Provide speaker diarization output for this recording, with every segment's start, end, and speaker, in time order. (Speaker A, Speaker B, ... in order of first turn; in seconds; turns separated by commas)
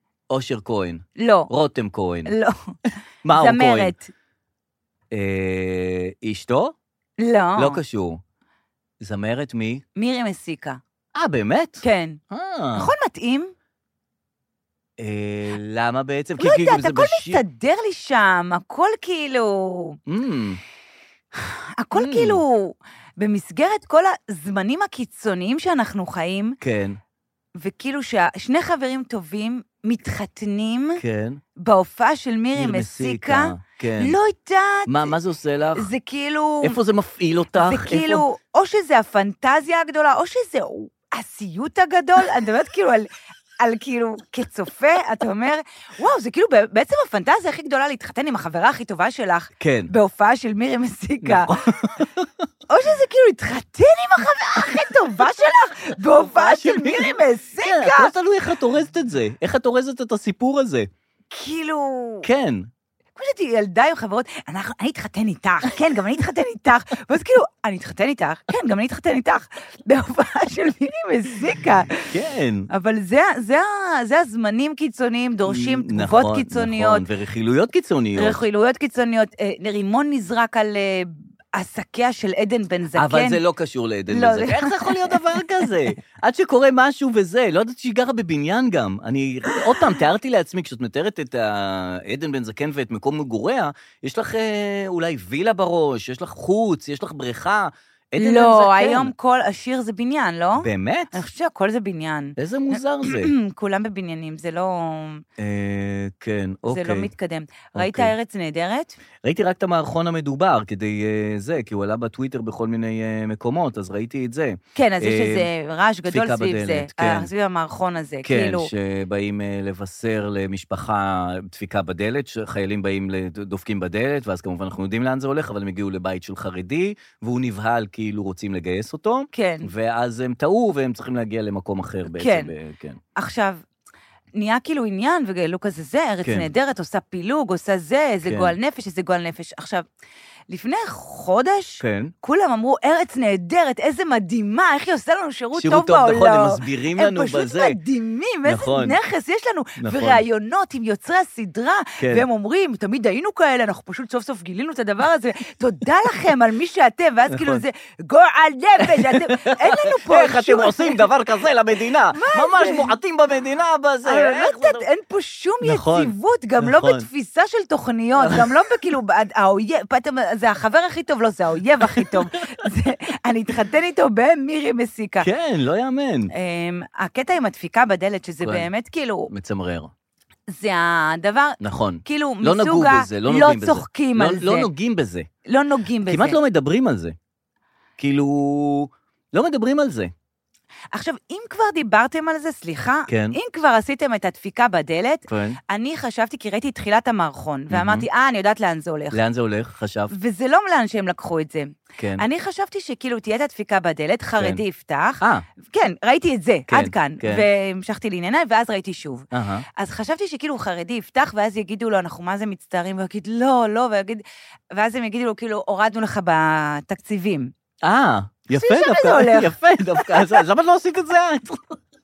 Speaker A: 0.3-2.3, Speaker B: 1.2-1.5, Speaker B: 2.2-2.8, Speaker A: 3.2-3.9, Speaker B: 3.3-4.1, Speaker A: 5.1-6.7, Speaker B: 7.2-7.8, Speaker A: 7.5-8.2, Speaker A: 9.0-9.8, Speaker B: 10.0-10.8, Speaker A: 11.1-12.9, Speaker B: 11.8-12.2, Speaker B: 12.7-13.5, Speaker A: 15.0-17.4, Speaker B: 16.4-20.0, Speaker A: 20.1-20.6, Speaker B: 21.4-26.6, Speaker A: 21.9-22.4, Speaker A: 26.6-27.0, Speaker B: 27.6-31.0, Speaker A: 31.0-31.4, Speaker B: 31.6-35.1, Speaker A: 32.5-34.2, Speaker A: 34.9-35.9, Speaker B: 35.8-36.8, Speaker A: 36.6-38.2, Speaker B: 37.6-43.1, Speaker B: 43.6-51.5, Speaker A: 49.6-49.9, Speaker A: 51.2-52.3, Speaker B: 52.7-58.1, Speaker A: 56.1-60.9, Speaker B: 61.3-62.3, Speaker A: 62.2-62.7, Speaker B: 63.1-72.1, Speaker A: 72.1-72.7, Speaker B: 72.7-77.0, Speaker A: 75.5-78.4, Speaker B: 78.2-83.4, Speaker A: 83.0-99.1, Speaker B: 84.1-85.2, Speaker B: 98.2-105.2, Speaker A: 100.6-101.2, Speaker A: 102.4-103.3, Speaker A: 105.4-107.1, Speaker B: 106.7-109.0, Speaker A: 107.7-108.1, Speaker A: 109.2-115.5, Speaker B: 114.8-118.7, Speaker A: 116.0-117.3, Speaker A: 118.2-133.0, Speaker B: 129.3-129.7, Speaker B: 132.1-132.5, Speaker B: 133.2-133.6, Speaker B: 134.3-139.8, Speaker A: 136.2-136.5, Speaker A: 138.2-138.5, Speaker B: 140.5-161.0, Speaker A: 141.8-142.1, Speaker A: 145.5-147.8, Speaker A: 148.4-149.0, Speaker A: 149.8-150.2, Speaker A: 152.0-152.2, Speaker A: 157.3-157.6, Speaker A: 158.8-164.8, Speaker B: 162.1-162.9, Speaker B: 164.1-175.3, Speaker A: 165.6-167.1, Speaker A: 168.2-168.5, Speaker A: 171.8-172.2, Speaker A: 175.2-176.3, Speaker B: 176.3-179.3, Speaker A: 178.4-178.7, Speaker A: 179.3-179.9, Speaker B: 180.5-184.7, Speaker A: 181.6-185.3, Speaker B: 185.4-186.4, Speaker A: 186.1-187.2, Speaker A: 188.0-190.1, Speaker B: 190.9-199.2, Speaker A: 193.1-193.4, Speaker A: 195.3-195.6, Speaker A: 197.7-198.1, Speaker A: 199.1-200.1, Speaker B: 200.1-217.5, Speaker A: 202.0-202.2, Speaker A: 205.2-205.4, Speaker A: 206.7-207.5, Speaker A: 209.3-209.7, Speaker A: 217.8-221.8, Speaker B: 218.5-220.4